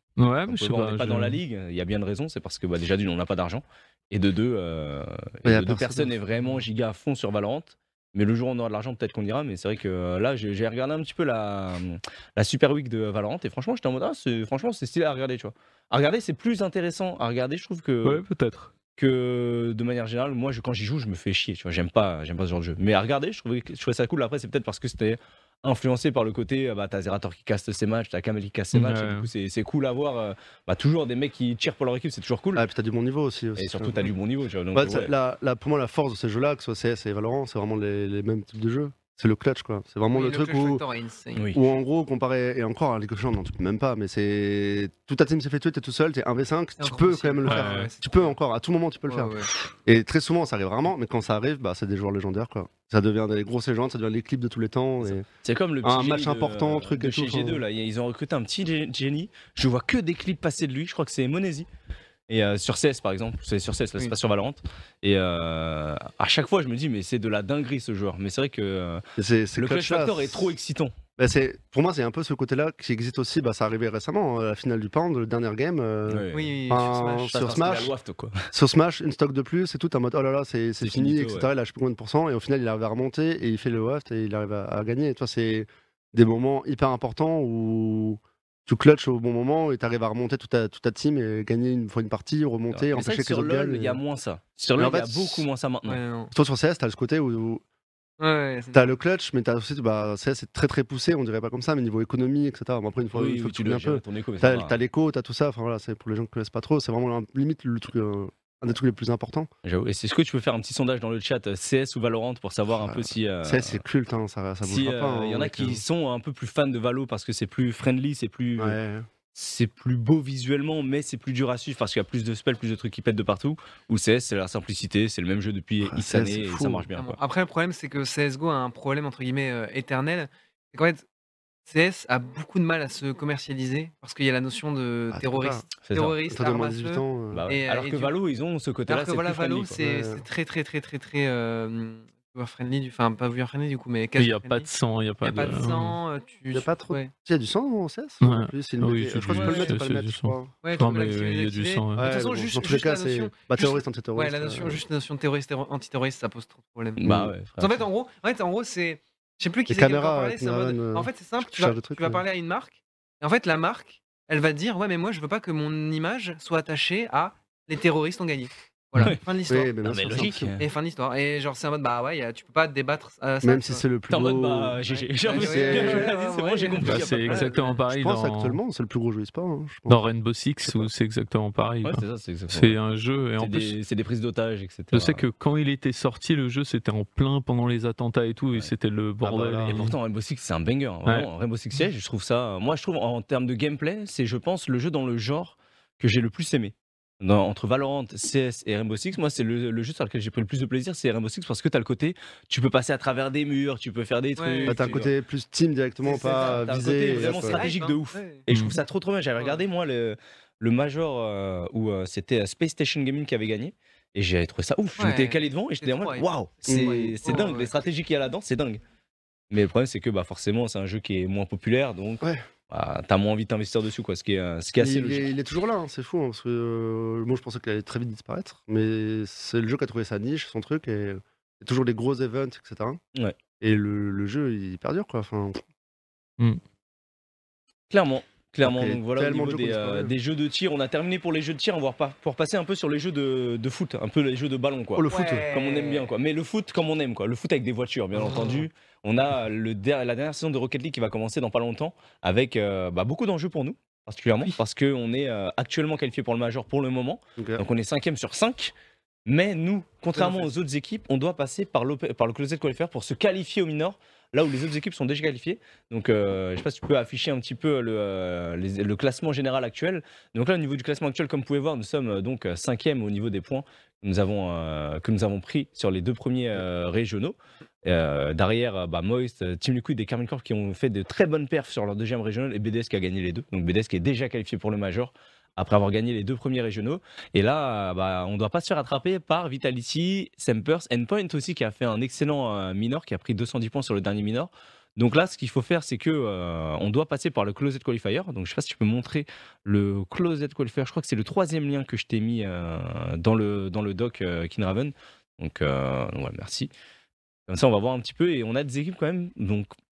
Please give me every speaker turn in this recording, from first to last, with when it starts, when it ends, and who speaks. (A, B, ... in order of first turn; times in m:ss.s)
0:00.2-0:01.4 A
0:00.5-0:18.2 B
0:05.4-0:06.2 C
0:18.0-0:18.7 A
0:19.0-0:32.7 B
0:28.7-0:29.3 A
0:32.6-0:34.0 C
0:33.6-0:35.1 B
0:34.7-0:40.8 C
0:40.1-0:41.5 D
0:41.4-0:41.6 B
0:41.5-0:55.3 C
0:46.8-0:48.3 D
0:47.4-0:47.9 A
0:49.1-0:49.5 D
0:55.0-1:01.7 B
0:55.8-0:57.6 C
1:02.3-1:09.0 B
1:09.2-1:10.5 C
1:09.6-1:10.9 B
1:11.2-1:17.9 C
1:16.1-1:16.5 B
1:16.3-1:17.6 D
1:17.3-1:18.5 B
1:18.5-1:34.0 C
1:20.8-1:21.5 B
1:32.7-1:36.0 B
1:34.8-1:35.5 C
1:35.9-1:36.3 D
1:36.3-1:37.6 C
1:38.2-1:39.0 D
1:38.7-1:49.5 C
1:43.1-1:44.8 B
1:49.6-1:53.8 B
1:52.8-1:55.8 C
1:54.6-1:58.8 B
1:58.6-1:59.1 C
1:59.3-2:07.2 B
2:05.8-2:06.9 C
2:07.0-2:11.0 D
2:11.7-2:18.2 D
2:15.1-2:15.6 C
2:15.8-2:16.2 B
2:16.3-2:17.4 C
2:17.3-2:19.8 B
2:18.9-2:24.7 D
2:19.8-2:20.2 C
2:24.2-2:26.0 A
2:25.2-2:27.1 D
2:26.5-2:30.5 C
2:28.2-2:32.1 A
2:29.4-2:29.8 D
2:30.6-2:37.0 D
2:32.0-2:34.8 C
2:37.0-2:37.8 B
2:37.0-2:37.3 C
2:37.6-2:53.8 D
2:39.7-2:42.2 C
2:49.5-2:50.5 C
2:49.8-2:50.7 B
2:53.4-2:54.8 C
2:54.1-2:57.6 B
2:54.8-2:57.8 D
2:55.4-2:56.1 C
2:56.8-2:58.6 A
2:57.9-3:00.0 C
2:59.9-3:03.8 A
3:00.6-3:00.9 C
3:01.8-3:02.8 B
3:03.4-3:05.3 B
3:04.9-3:10.0 A
3:09.2-3:09.8 C
3:09.7-3:25.1 B
3:24.4-3:25.0 D
3:24.6-3:27.6 C
3:26.0-3:38.8 B
3:26.2-3:28.4 D
3:28.5-3:28.8 A
3:35.0-3:37.7 D
3:36.7-3:37.2 C
3:39.5-3:45.3 B
3:44.8-3:53.0 C
3:53.6-3:55.6 C
3:57.9-4:18.7 B
3:58.6-4:00.1 C
4:04.9-4:05.5 C
4:05.1-4:06.1 D
4:17.4-4:17.6 C
4:19.3-5:06.7 B
4:20.2-4:20.5 D
5:07.5-5:09.7 B